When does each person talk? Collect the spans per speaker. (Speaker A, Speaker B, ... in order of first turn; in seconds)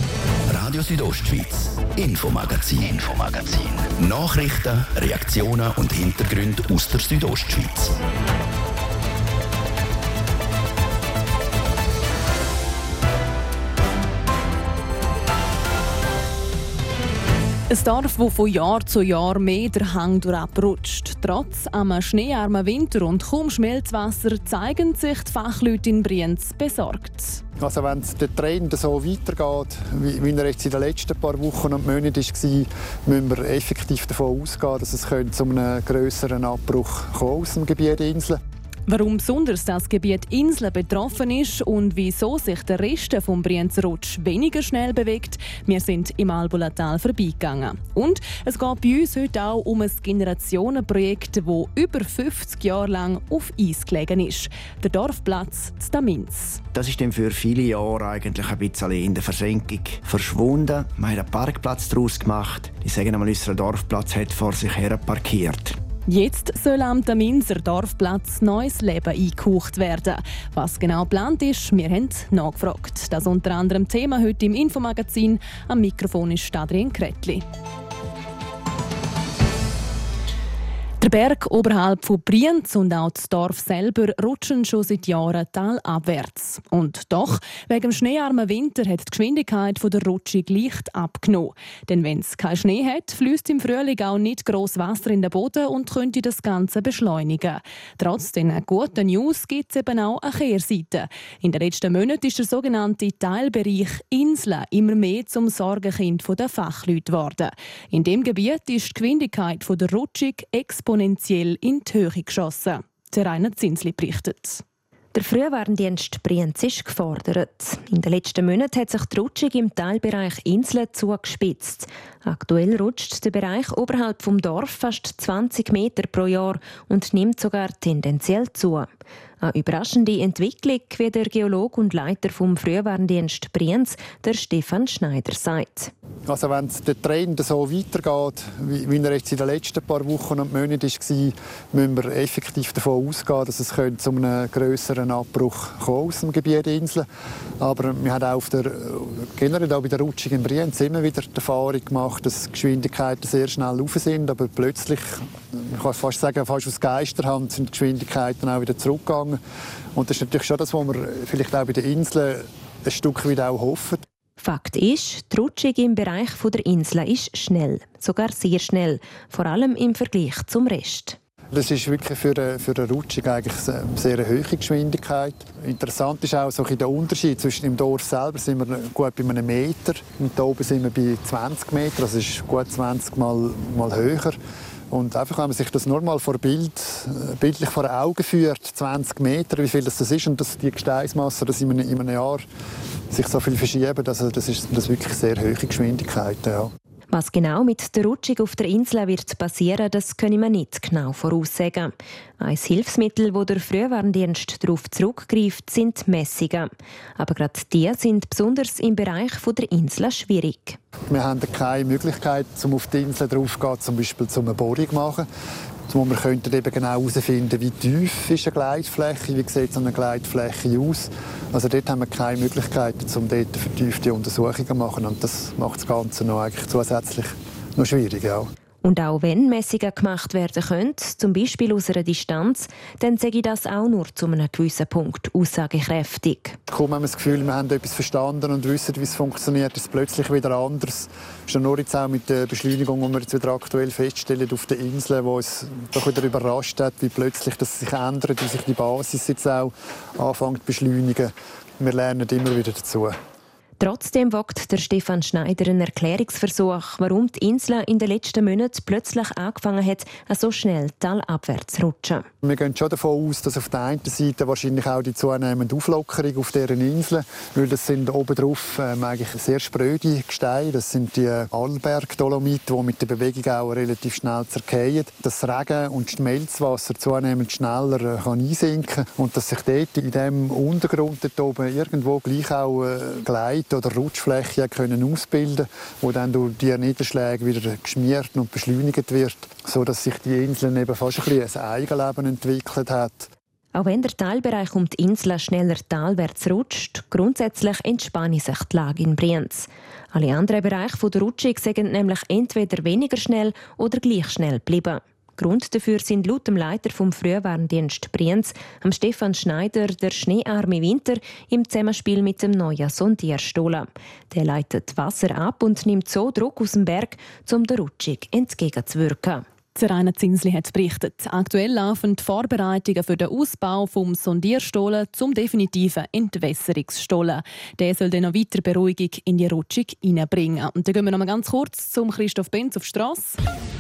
Speaker A: 0.5-8.0
Speaker B: 17.7-27.4, 38.9-56.6, 66.1-77.4, 81.0-114.6, 319.7-333.4
Speaker C: 27.6-38.4, 136.3-147.1, 147.6-159.4, 159.9-164.0, 171.5-184.3, 184.9-192.4, 193.1-196.7, 211.1-215.3, 215.9-228.5, 236.7-253.1, 262.4-293.3
Speaker D: 56.7-65.8
Speaker E: 115.1-128.9, 129.4-135.9, 164.4-171.2, 197.1-210.8, 228.8-236.6, 253.8-262.3, 293.7-319.4